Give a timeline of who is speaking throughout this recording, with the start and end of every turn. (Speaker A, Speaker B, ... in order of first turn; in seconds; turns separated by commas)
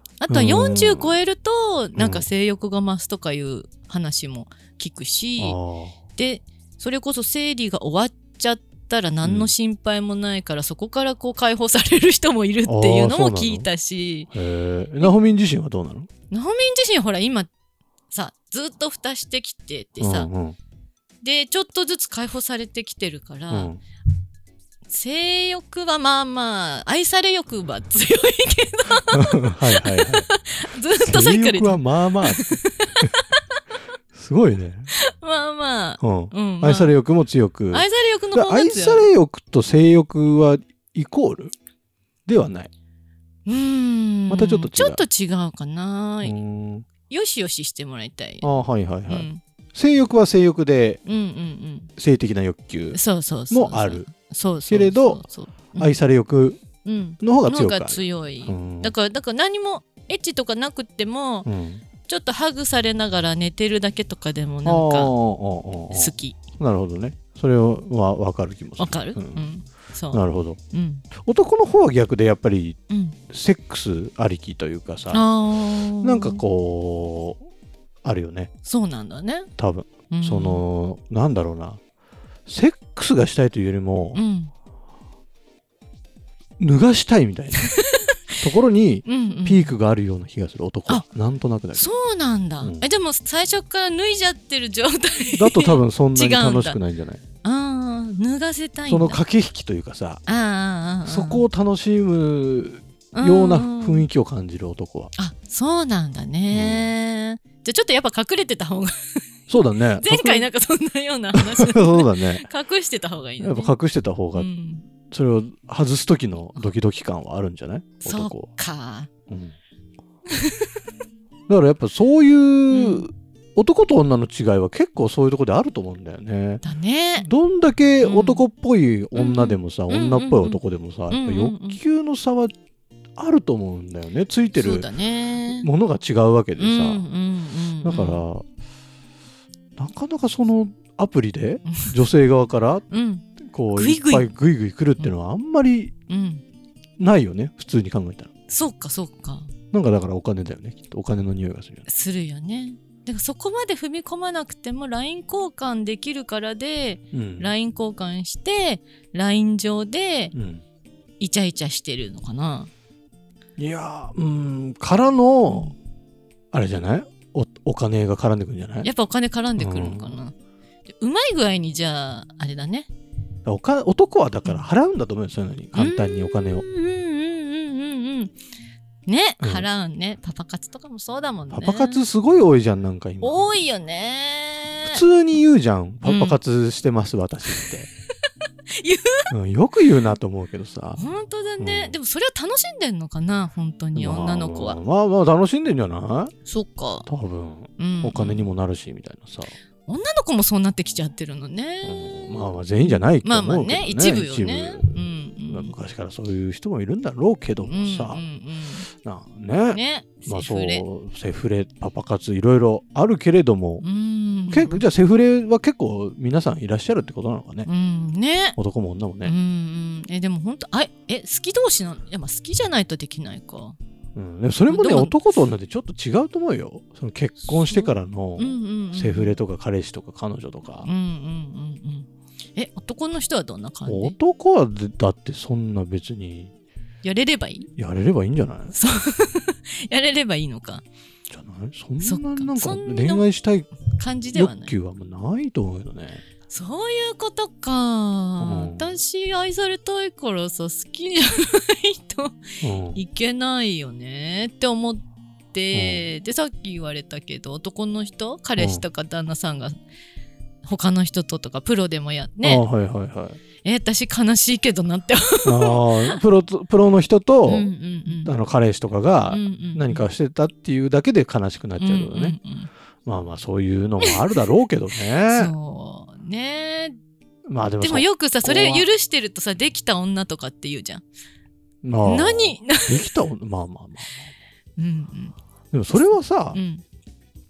Speaker A: 0.2-5.6, Speaker B: 0.3-1.2, Speaker B: 1.9-2.2, Speaker B: 5.4-5.9, Speaker A: 6.2-14.3, Speaker B: 9.2-9.5, Speaker B: 12.7-13.7, Speaker B: 14.3-16.1, Speaker A: 16.3-17.5, Speaker A: 18.1-20.3, Speaker B: 20.0-20.6, Speaker A: 21.2-23.7, Speaker B: 23.5-23.8, Speaker A: 24.9-33.6, Speaker B: 29.1-30.3, Speaker B: 30.9-33.1, Speaker B: 34.1-34.9, Speaker A: 34.9-36.9, Speaker B: 36.0-41.5, Speaker A: 37.7-39.1, Speaker B: 42.3-42.7, Speaker A: 43.5-46.4, Speaker B: 44.3-45.0, Speaker B: 46.2-46.9, Speaker A: 47.1-48.5, Speaker B: 48.4-51.0, Speaker A: 49.1-49.4, Speaker A: 51.0-51.9, Speaker B: 52.0-54.0, Speaker A: 52.9-55.9, Speaker B: 54.7-55.2, Speaker B: 55.7-56.6, Speaker A: 56.8-61.5, Speaker B: 57.2-58.9, Speaker B: 61.5-61.8, Speaker A: 62.1-65.1, Speaker B: 64.6-69.4, Speaker A: 65.9-66.4, Speaker A: 68.8-71.0, Speaker B: 70.1-70.6, Speaker B: 71.2-75.2, Speaker A: 72.9-73.2, Speaker A: 75.1-76.4, Speaker B: 76.0-77.4, Speaker B: 78.0-78.5, Speaker A: 78.6-79.5, Speaker B: 79.6-81.8, Speaker A: 80.1-80.6, Speaker B: 82.5-84.2, Speaker A: 84.1-84.5, Speaker B: 86.6-87.7, Speaker A: 87.6-88.3, Speaker B: 88.4-91.9, Speaker A: 89.0-89.7, Speaker A: 91.7-96.8, Speaker B: 95.3-97.2, Speaker A: 97.4-99.2, Speaker B: 98.9-100.2, Speaker A: 100.2-101.4, Speaker B: 101.0-105.1, Speaker A: 103.1-104.0, Speaker A: 105.2-109.2, Speaker B: 106.5-106.9, Speaker B: 109.5-110.5, Speaker A: 110.0-113.7, Speaker B: 111.3-112.5, Speaker B: 113.4-114.5, Speaker A: 114.3-114.8, Speaker B: 115.1-118.5, Speaker A: 118.0-119.1, Speaker B: 119.3-119.5, Speaker A: 120.3-120.7, Speaker B: 121.5-126.6, Speaker A: 122.7-123.0, Speaker A: 126.6-127.3, Speaker B: 127.2-132.5, Speaker A: 128.0-128.4, Speaker A: 129.2-131.8, Speaker B: 133.2-134.9, Speaker A: 134.5-135.7, Speaker B: 135.5-137.0, Speaker A: 136.6-138.2, Speaker B: 137.8-138.4, Speaker B: 139.8-142.8, Speaker A: 142.9-144.3, Speaker B: 143.4-145.9, Speaker A: 146.1-146.4, Speaker B: 147.0-148.3, Speaker A: 148.5-149.5, Speaker B: 149.7-151.8, Speaker A: 151.9-160.3, Speaker B: 157.1-157.5, Speaker B: 160.3-160.6, Speaker A: 161.2-162.7, Speaker B: 163.6-165.7, Speaker B: 166.5-168.9, Speaker A: 168.8-170.3, Speaker B: 169.6-170.2, Speaker A: 171.0-172.9, Speaker B: 173.4-176.6, Speaker A: 175.8-178.3, Speaker A: 179.1-182.0, Speaker B: 181.5-183.4, Speaker A: 183.2-185.0, Speaker B: 184.8-187.9, Speaker A: 186.0-186.4, Speaker A: 188.7-189.3, Speaker B: 189.3-191.0, Speaker A: 191.0-194.8, Speaker B: 191.6-191.9, Speaker B: 193.9-196.3, Speaker A: 196.4-197.1, Speaker B: 197.1-199.5, Speaker A: 197.8-198.5, Speaker A: 199.8-205.7, Speaker B: 201.8-204.9, Speaker B: 205.5-208.2, Speaker A: 207.6-208.9, Speaker B: 209.0-213.8, Speaker A: 209.7-210.8, Speaker A: 213.8-214.8, Speaker B: 214.5-217.7, Speaker A: 217.7-218.6, Speaker B: 218.6-219.3, Speaker A: 219.2-223.8, Speaker B: 224.1-230.9, Speaker A: 224.7-225.1, Speaker A: 227.6-229.4, Speaker A: 230.8-234.2, Speaker B: 233.8-236.5, Speaker A: 237.0-237.7, Speaker B: 237.8-238.7, Speaker A: 238.7-240.8, Speaker B: 241.3-243.7, Speaker A: 242.0-243.3, Speaker A: 243.9-244.7, Speaker B: 244.3-246.2, Speaker A: 246.5-252.4, Speaker B: 248.4-248.8, Speaker B: 252.6-253.0, Speaker A: 252.9-259.8, Speaker B: 255.7-256.0, Speaker B: 258.6-258.8, Speaker A: 260.6-262.6, Speaker B: 262.4-263.4, Speaker A: 263.6-266.2, Speaker B: 265.4-267.7, Speaker A: 267.5-268.3, Speaker B: 268.2-272.4, Speaker A: 269.3-270.0, Speaker A: 271.8-272.7, Speaker B: 273.1-275.5, Speaker A: 275.3-277.0, Speaker B: 277.4-278.9, Speaker A: 277.8-281.0, Speaker B: 281.8-284.3, Speaker A: 282.0-283.1, Speaker A: 284.8-285.3, Speaker B: 285.7-286.6, Speaker A: 286.5-286.8